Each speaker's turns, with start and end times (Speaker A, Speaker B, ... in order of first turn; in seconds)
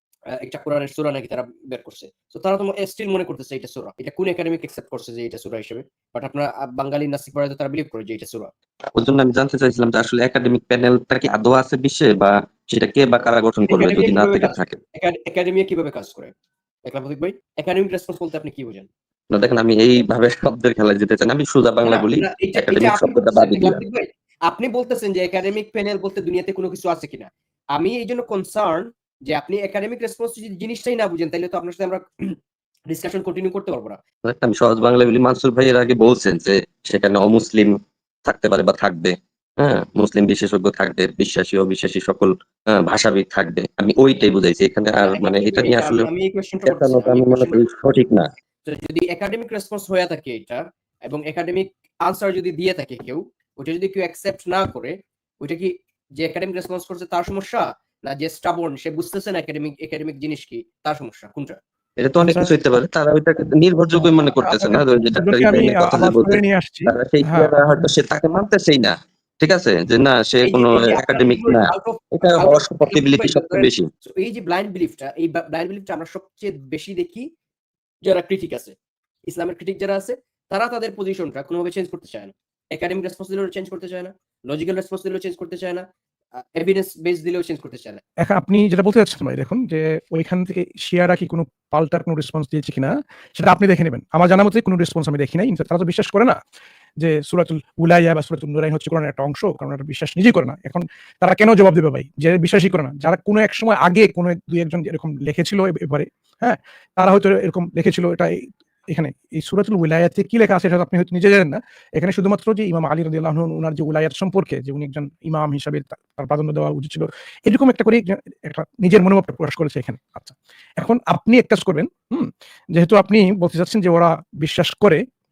Speaker A: 0.3-8.5, 13.7-16.3, 16.9-18.9, 21.9-32.4, 32.9-34.0, 45.0-47.6, 48.6-61.6, 70.5-77.3, 78.0-78.8, 79.3-88.0
Speaker B: 8.9-14.8, 19.3-23.8, 34.2-46.1, 46.7-48.3, 62.0-73.9
Speaker C: 62.2-62.5, 64.0-67.5, 88.2-96.4, 97.0-125.0